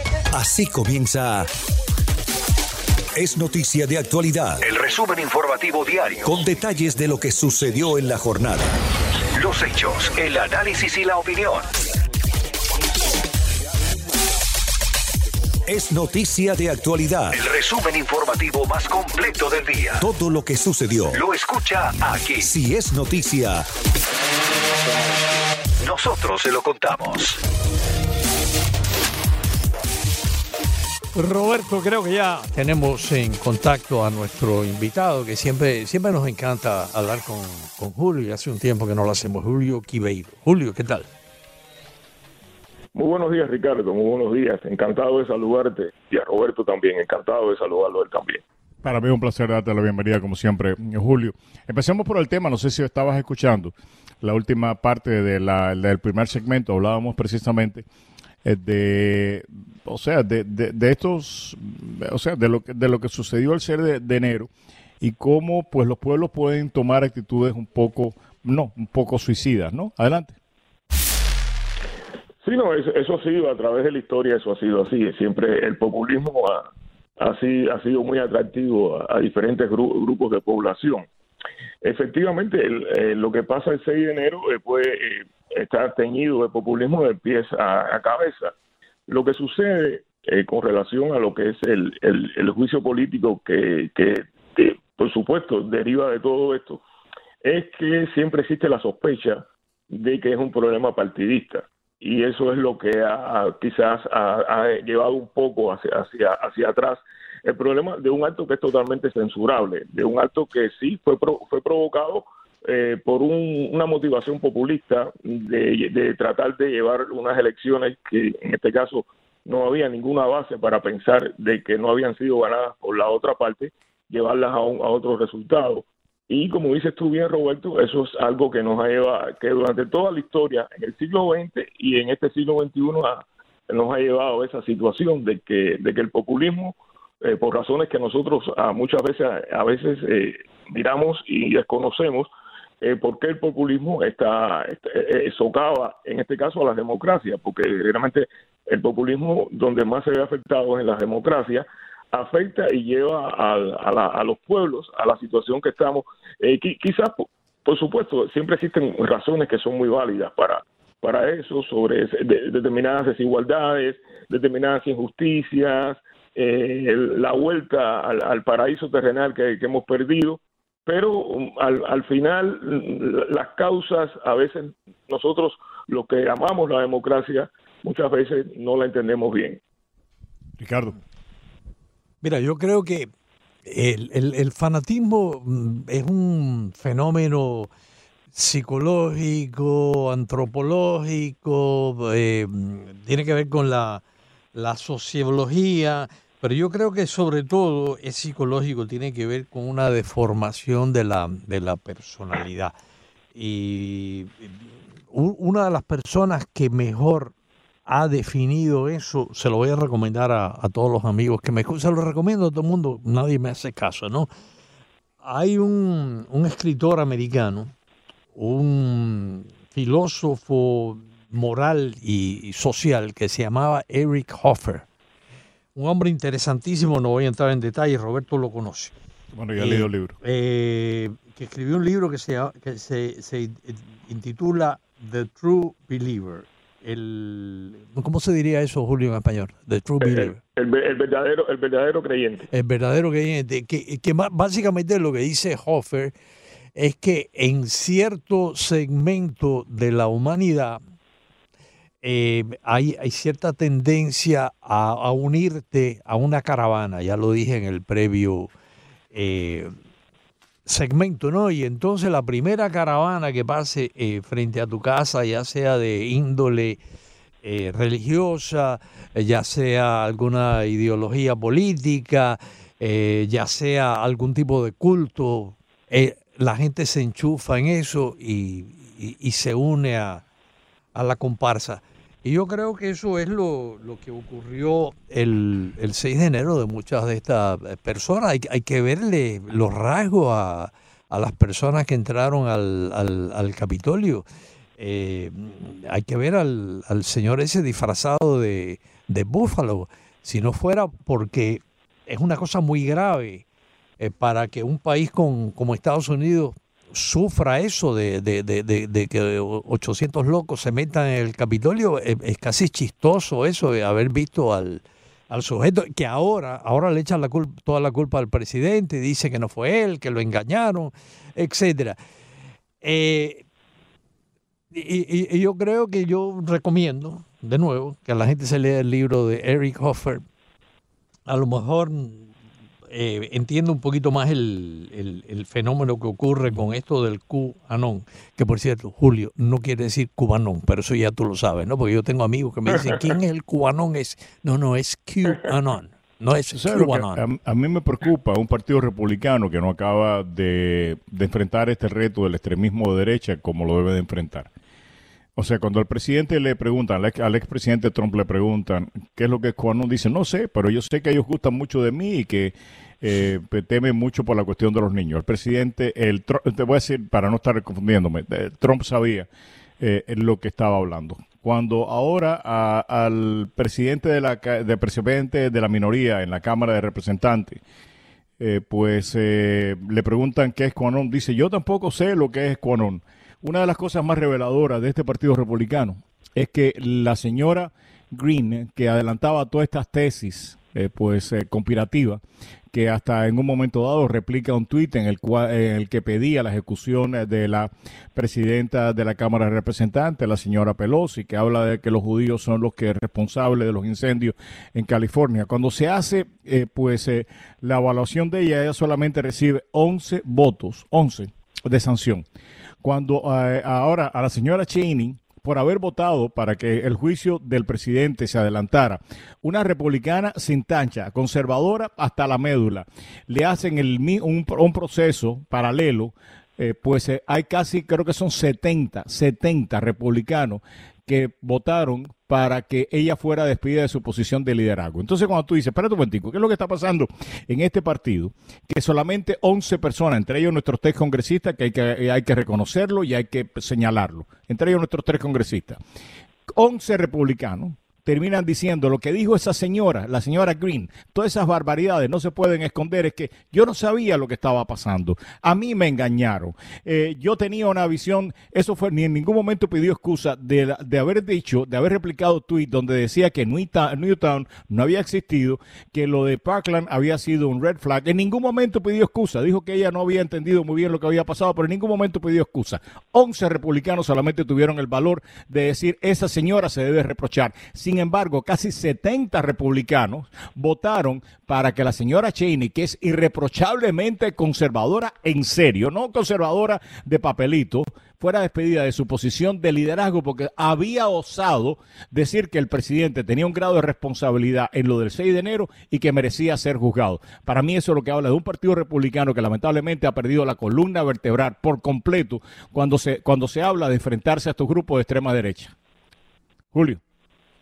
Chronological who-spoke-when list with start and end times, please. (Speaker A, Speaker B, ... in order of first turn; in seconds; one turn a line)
Speaker A: 0.3-1.5
Speaker A: 3.2-5.0
Speaker B: 4.8-6.2
Speaker A: 6.1-8.7
Speaker B: 9.5-11.6
Speaker A: 10.4-10.7
Speaker A: 15.7-17.7
Speaker B: 17.5-19.8
Speaker A: 19.8-23.7
Speaker B: 21.4-22.3
Speaker B: 25.9-27.2
Speaker C: 31.1-41.1
Speaker D: 43.0-48.4
Speaker E: 48.8-57.9
Speaker E: 58.4-64.5
Speaker E: 65.0-70.4
Speaker D: 72.4-76.7
Speaker D: 77.2-81.1
Speaker D: 81.8-88.5
Speaker D: 89.1-96.8
Speaker D: 97.4-142.3
Speaker D: 142.8-179.6
Speaker E: 180.6-181.0
Speaker C: 182.2-183.1
Speaker C: 183.7-187.7
Speaker C: 188.3-194.0
Speaker C: 194.6-202.8
Speaker C: 203.3-204.6
Speaker C: 205.1-207.3
Speaker C: 207.9-214.3
Speaker C: 215.2-217.7
Speaker C: 218.3-224.8
Speaker C: 225.8-228.9
Speaker E: 229.3-230.2
Speaker C: 229.6-240.4
Speaker D: 240.0-242.4
Speaker C: 242.5-246.1
Speaker C: 246.8-250.8
Speaker C: 252.0-258.5
Speaker C: 259.1-259.8
Speaker C: 260.7-266.8
Speaker C: 267.4-280.2
Speaker C: 280.9-294.3
Speaker C: 294.8-303.4
Speaker C: 304.0-322.0
Speaker C: 322.8-323.4
Speaker C: 324.7-330.2
Speaker C: 331.3-332.3
Speaker C: 332.9-347.3
Speaker E: 346.5-354.5
Speaker E: 355.4-369.3
Speaker E: 369.8-377.6
Speaker E: 378.4-392.2
Speaker E: 392.7-412.2
Speaker E: 412.8-445.8
Speaker E: 446.5-505.7
Speaker E: 506.7-507.0